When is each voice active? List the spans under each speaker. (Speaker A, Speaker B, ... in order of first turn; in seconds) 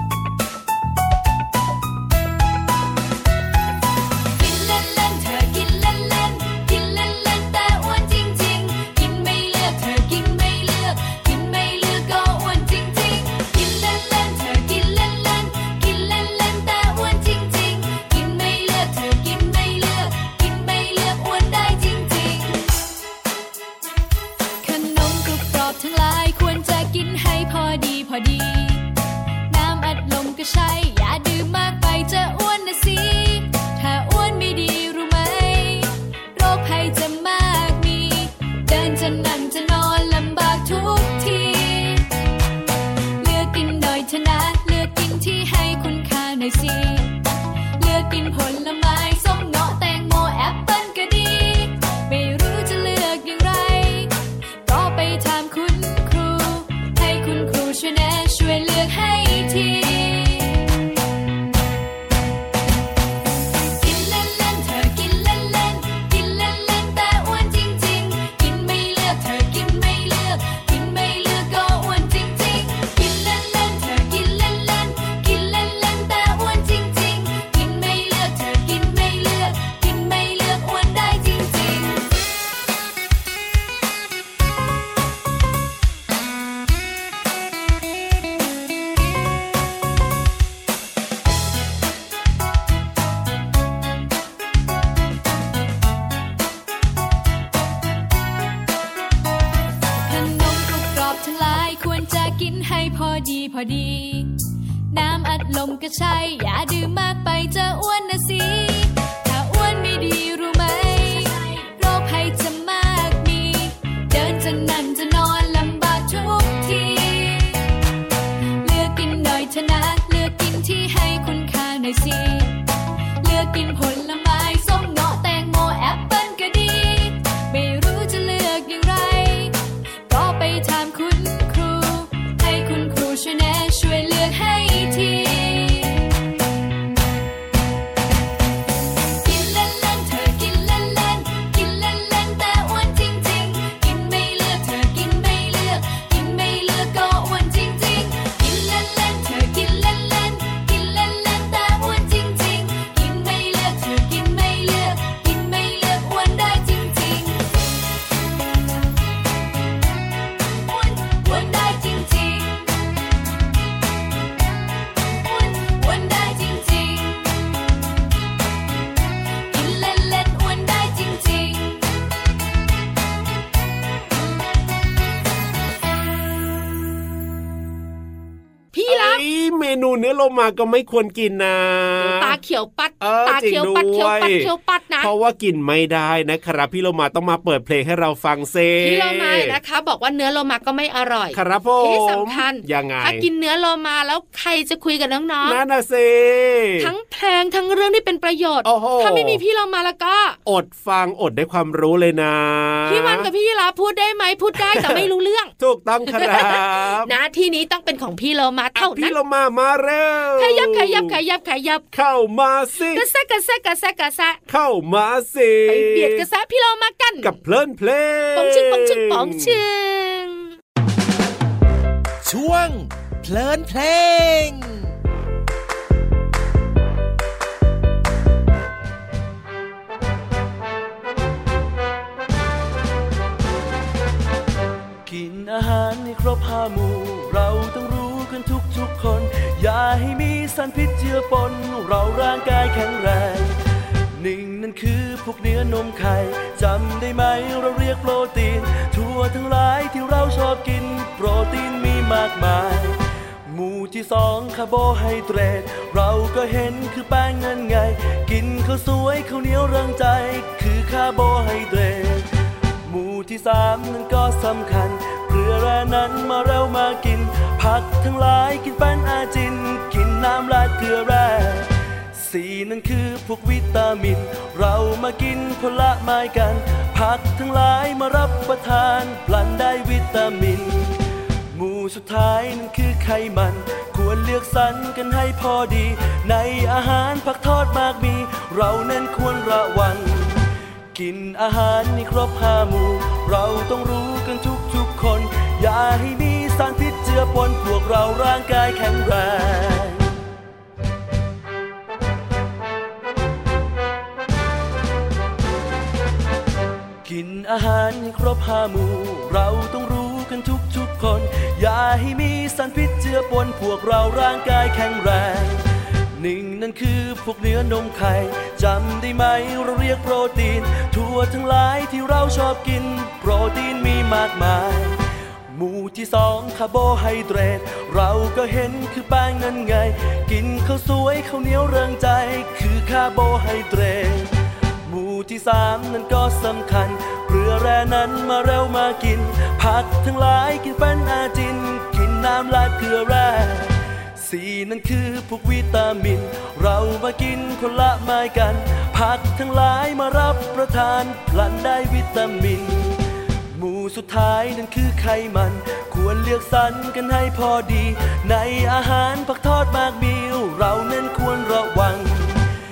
Speaker A: 4.4-22.8, 24.6-28.9, 29.5-42.1, 43.2-47.2, 47.8-54.1, 54.6-60.7, 63.8-82.1, 99.9-104.4, 104.9-117.7, 118.6-122.6, 123.2-136.1, 139.2-157.6, 160.6-162.7, 165.2-167.3, 169.5-171.8
Speaker B: 178.7-179.2, 182.0-185.1, 188.8-195.6, 196.8-200.4, 202.9-205.5, 206.1-209.2, 210.4-211.8, 212.9-214.4, 215.7-217.4, 218.3-220.5
Speaker C: 178.9-182.4, 183.0-189.6, 191.3-193.3, 195.4-196.9, 198.7-199.4, 200.5-203.3, 204.6-205.1, 205.6-207.1, 208.8-211.2, 211.9-213.1, 214.5-216.3, 217.2-219.6
Speaker D: 222.2-224.9
Speaker E: 235.1-243.6, 244.2-262.3, 262.9-281.0, 281.5-290.4, 290.9-300.1, 307.1-315.6, 316.2-325.0, 325.5-334.3, 334.9-353.0, 353.5-362.4